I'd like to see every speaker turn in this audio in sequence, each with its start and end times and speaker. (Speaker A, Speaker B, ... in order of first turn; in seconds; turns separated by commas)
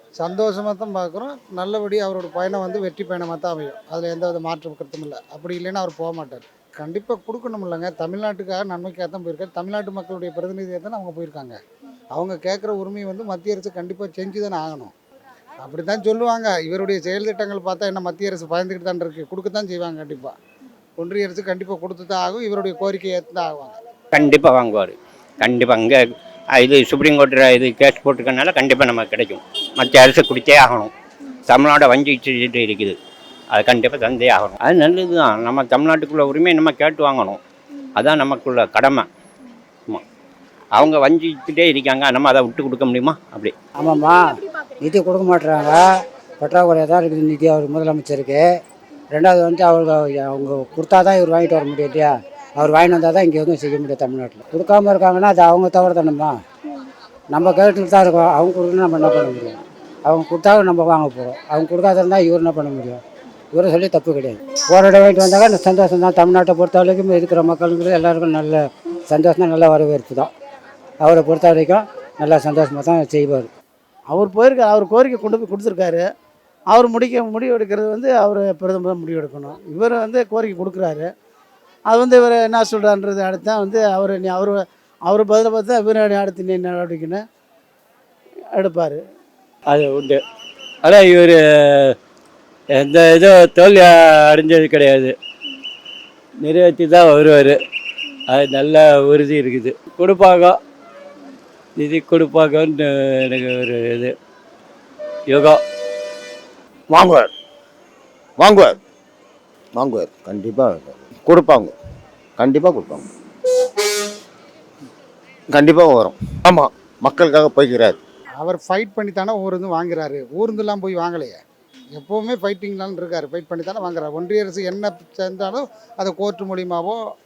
Speaker A: 0.2-11.6, Speaker A: 12.2-14.9, Speaker A: 15.6-20.4, Speaker A: 21.0-23.8, Speaker B: 24.1-26.0, Speaker B: 26.6-30.9, Speaker B: 31.5-33.0, Speaker B: 33.5-37.4, Speaker B: 38.0-39.1, Speaker B: 40.8-43.5, Speaker C: 43.8-45.8, Speaker C: 46.4-48.5, Speaker C: 49.1-56.4, Speaker C: 57.3-63.0, Speaker C: 63.5-70.3, Speaker C: 71.0-73.5, Speaker D: 74.1-76.0, Speaker D: 76.7-81.1, Speaker D: 81.9-87.2, Speaker D: 88.5-89.0, Speaker E: 89.7-90.2, Speaker E: 90.8-92.0, Speaker E: 92.7-95.2, Speaker E: 96.4-97.6, Speaker E: 98.3-100.6, Speaker E: 101.8-104.2, Speaker E: 105.3-105.6, Speaker F: 106.9-107.3, Speaker F: 108.4-108.8, Speaker F: 109.7-111.7, Speaker F: 112.4-113.1, Speaker F: 115.5-118.0, Speaker A: 118.4-121.4, Speaker A: 121.9-127.0